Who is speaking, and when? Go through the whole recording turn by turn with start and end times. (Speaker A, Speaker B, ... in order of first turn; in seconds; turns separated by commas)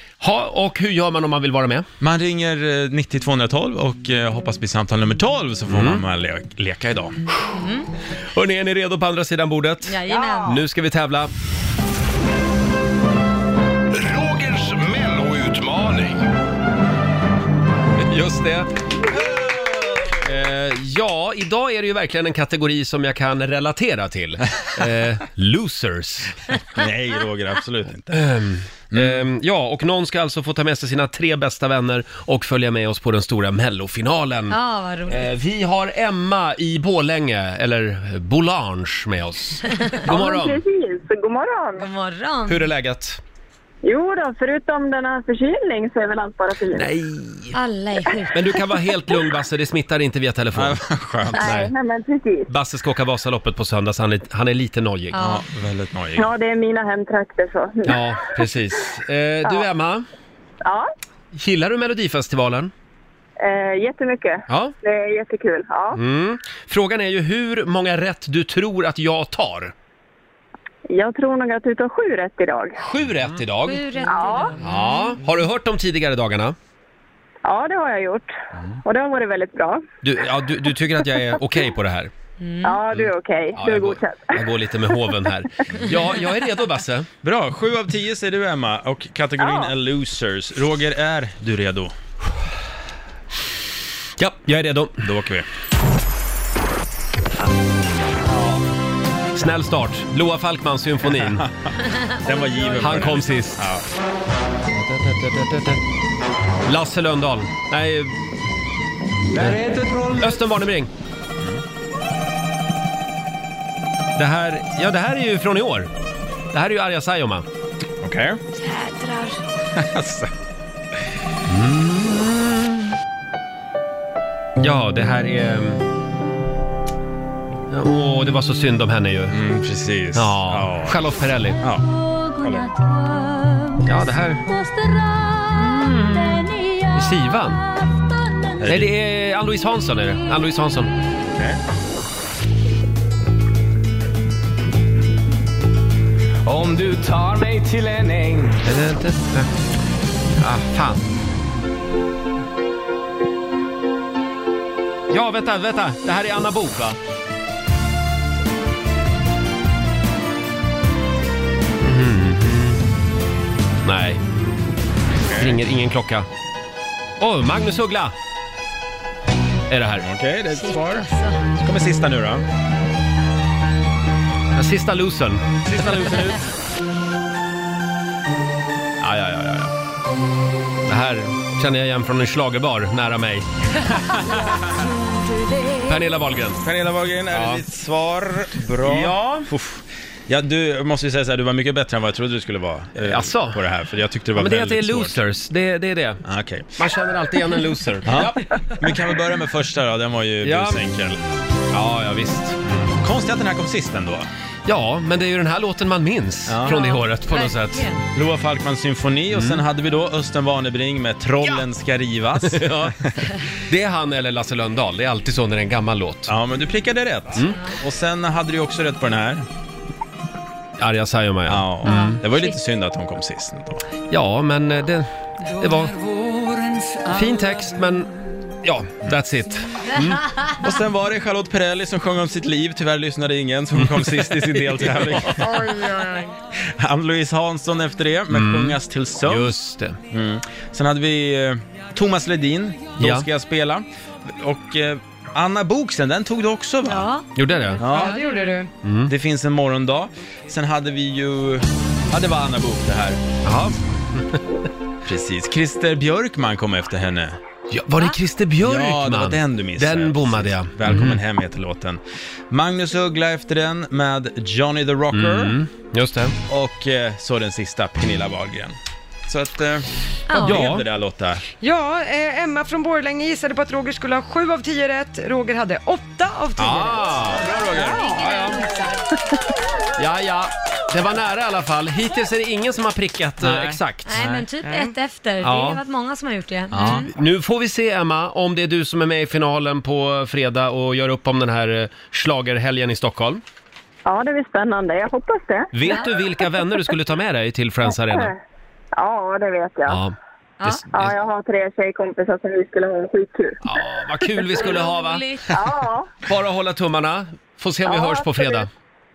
Speaker A: 0.2-1.9, Speaker B: 2.0-7.2, Speaker A: 5.7-6.0, Speaker C: 7.5-7.9, Speaker A: 8.3-11.3, Speaker C: 9.9-10.6, Speaker D: 13.9-16.3, Speaker A: 18.0-18.7, Speaker B: 19.6-20.1, Speaker A: 20.2-26.4, Speaker B: 26.7-28.3, Speaker A: 28.1-40.6, Speaker B: 28.9-29.2, Speaker C: 34.5-35.3, Speaker E: 40.0-41.9, Speaker C: 41.8-42.7, Speaker A: 42.5-43.2, Speaker E: 43.8-46.9, Speaker A: 46.7-47.6, Speaker C: 47.5-48.5, Speaker A: 48.3-50.8, Speaker B: 50.5-51.6, Speaker A: 51.3-51.7, Speaker E: 51.4-52.5, Speaker A: 52.5-55.2, Speaker C: 55.1-55.5, Speaker B: 55.2-56.3, Speaker E: 56.2-58.0, Speaker A: 57.9-60.0, Speaker A: 61.3-62.7, Speaker E: 63.4-66.0, Speaker A: 64.5-64.7, Speaker A: 65.9-69.7, Speaker E: 70.9-72.8, Speaker A: 72.8-73.9, Speaker C: 73.7-75.2, Speaker E: 74.1-74.5, Speaker A: 74.6-76.6, Speaker E: 77.5-78.3, Speaker E: 78.8-79.8, Speaker A: 80.0-82.1, Speaker C: 82.4-82.8, Speaker E: 82.6-84.4, Speaker A: 83.5-87.1, Speaker B: 87.2-92.0, Speaker E: 89.4-89.7, Speaker A: 94.2-95.1, Speaker B: 95.0-95.5, Speaker A: 99.3-101.5, Speaker B: 101.2-101.5, Speaker B: 102.2-103.9, Speaker A: 102.8-103.6, Speaker A: 104.9-105.8, Speaker A: 106.7-108.1, Speaker A: 109.3-109.7, Speaker A: 110.2-110.9, Speaker A: 114.2-115.9, Speaker A: 116.5-117.5, Speaker B: 118.0-118.4, Speaker C: 118.6-119.4, Speaker B: 119.7-120.3, Speaker A: 121.5-122.9, Speaker A: 124.6-125.8, Speaker A: 127.7-129.4, Speaker B: 129.3-131.9, Speaker A: 130.2-131.6, Speaker B: 132.4-132.7, Speaker A: 133.8-134.4, Speaker A: 135.5-137.6, Speaker B: 138.6-138.9, Speaker A: 138.7-140.9, Speaker B: 141.3-141.6, Speaker F: 146.4-148.6, Speaker A: 148.6-149.5, Speaker A: 150.4-151.0, Speaker A: 155.1-157.0, Speaker A: 161.8-162.8, Speaker A: 163.8-164.2, Speaker B: 165.2-165.6, Speaker A: 165.4-166.3, Speaker A: 167.2-168.1, Speaker A: 169.7-170.1, Speaker B: 170.0-171.1, Speaker C: 170.6-171.4, Speaker B: 171.6-172.5, Speaker A: 174.6-175.5, Speaker B: 175.7-176.4, Speaker A: 179.0-179.7, Speaker A: 180.9-183.5, Speaker A: 185.8-186.6, Speaker B: 186.6-195.2, Speaker A: 187.3-187.6, Speaker A: 188.8-189.5, Speaker A: 193.0-193.6, Speaker A: 194.3-196.2, Speaker B: 196.2-196.8, Speaker A: 196.8-198.5, Speaker B: 198.1-201.2, Speaker A: 200.4-200.8, Speaker A: 201.7-202.6, Speaker B: 202.8-204.3, Speaker A: 204.7-207.9, Speaker B: 206.5-206.8, Speaker C: 206.6-208.0, Speaker B: 208.2-213.1, Speaker A: 209.3-209.6, Speaker A: 212.4-213.0, Speaker A: 213.6-216.3, Speaker B: 216.3-219.5, Speaker A: 220.8-222.2, Speaker B: 221.5-223.8, Speaker C: 221.9-222.5, Speaker A: 224.1-225.9, Speaker A: 227.1-228.1, Speaker A: 228.6-230.2, Speaker B: 230.6-235.6, Speaker A: 233.8-235.4, Speaker B: 236.6-239.5, Speaker A: 238.3-240.0, Speaker B: 240.1-247.1, Speaker A: 243.0-243.3, Speaker C: 246.8-248.2, Speaker A: 247.3-247.8, Speaker B: 247.8-248.2, Speaker G: 247.9-248.7, Speaker A: 248.8-249.1, Speaker B: 249.1-253.2, Speaker A: 253.4-254.4, Speaker B: 255.1-257.4, Speaker A: 257.7-261.2, Speaker B: 258.6-265.6, Speaker A: 265.1-266.4, Speaker B: 266.5-271.4, Speaker C: 270.3-270.6, Speaker A: 270.4-270.9, Speaker G: 271.6-277.2, Speaker A: 276.6-278.6, Speaker B: 276.6-278.0, Speaker C: 277.7-279.0, Speaker A: 280.0-284.2, Speaker B: 283.7-284.4, Speaker C: 284.1-287.1, Speaker G: 284.6-284.9, Speaker A: 285.4-285.8, Speaker B: 286.7-287.1, Speaker A: 286.8-293.4, Speaker E: 294.1-296.1, Speaker A: 295.7-298.3, Speaker E: 298.0-298.3, Speaker E: 298.9-300.0, Speaker A: 299.9-300.1, Speaker C: 300.6-300.9, Speaker A: 300.6-301.1, Speaker E: 300.9-303.6, Speaker A: 303.6-305.3, Speaker C: 304.6-305.6, Speaker E: 305.5-306.1, Speaker A: 306.2-308.7, Speaker E: 307.9-308.7